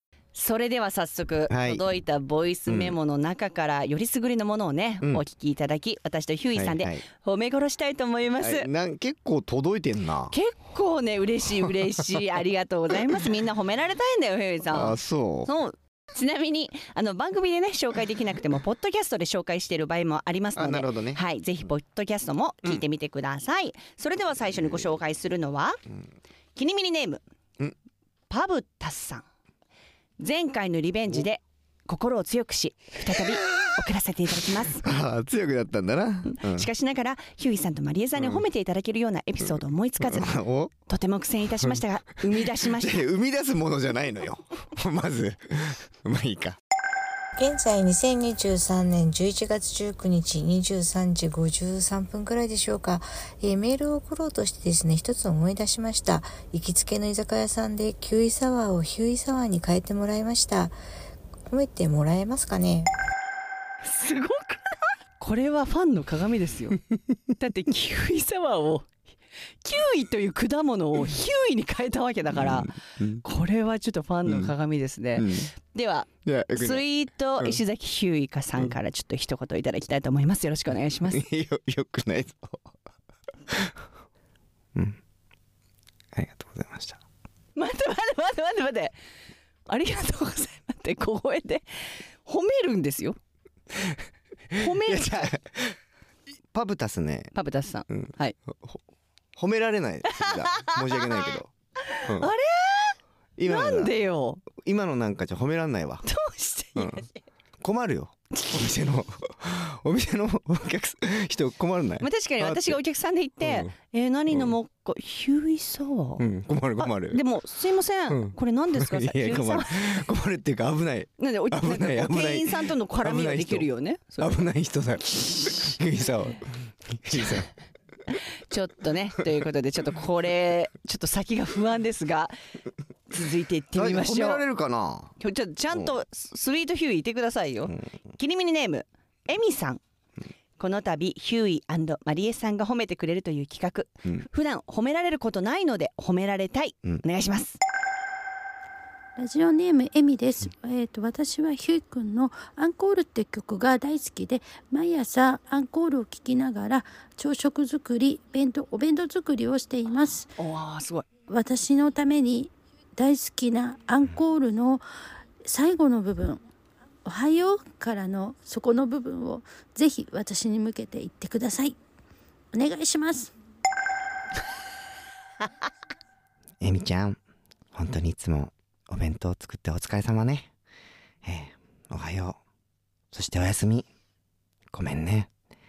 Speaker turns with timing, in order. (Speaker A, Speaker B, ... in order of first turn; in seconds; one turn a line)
Speaker A: 0.3-8.7
Speaker B: 1.5-1.8
Speaker B: 2.7-2.9
Speaker B: 6.5-7.0
Speaker B: 8.4-10.3
Speaker A: 10.3-25.8
Speaker B: 14.7-15.5
Speaker B: 20.6-21.2
Speaker A: 26.6-27.2
Speaker A: 28.3-29.2
Speaker A: 30.2-34.9
Speaker B: 34.8-36.7
Speaker A: 36.3-40.3
Speaker B: 38.1-38.4
Speaker B: 39.4-40.7
Speaker A: 40.9-43.0
Speaker B: 42.8-46.6
Speaker C: 47.4-60.8
Speaker C: 61.5-62.9
Speaker A: 63.8-66.8
Speaker A: 67.4-68.9
Speaker A: 69.6-81.2
Speaker B: 72.3-73.2
Speaker B: 74.3-74.5
Speaker B: 75.2-75.5
Speaker B: 76.2-76.8
Speaker B: 81.1-82.7
Speaker B: 86.1-87.0
Speaker A: 87.5-88.9
Speaker A: 89.7-93.2
Speaker A: 94.5-95.3
Speaker B: 94.9-95.7
Speaker B: 96.5-97.3
Speaker A: 97.3-98.3
Speaker B: 97.9-98.8
Speaker B: 99.3-101.5
Speaker A: 101.9-104.4
Speaker B: 103.4-103.9
Speaker B: 104.5-106.0
Speaker A: 106.0-107.1
Speaker B: 107.6-112.8
Speaker A: 112.0-116.2
Speaker B: 113.4-113.7
Speaker B: 116.2-117.2
Speaker A: 116.8-120.0
Speaker B: 118.1-123.7
Speaker A: 121.2-124.4
Speaker B: 124.2-127.5
Speaker A: 125.2-125.5
Speaker A: 127.1-127.4
Speaker A: 128.5-132.3
Speaker A: 133.1-134.4
Speaker B: 133.7-135.1
Speaker A: 135.2-139.8
Speaker A: 140.6-147.6
Speaker D: 149.2-160.3
Speaker A: 160.4-161.1
Speaker D: 161.3-164.8
Speaker D: 165.4-166.4
Speaker D: 167.0-171.8
Speaker D: 172.5-173.3
Speaker B: 176.6-177.2
Speaker B: 177.7-180.5
Speaker B: 181.2-182.4
Speaker B: 183.1-183.9
Speaker B: 184.7-185.3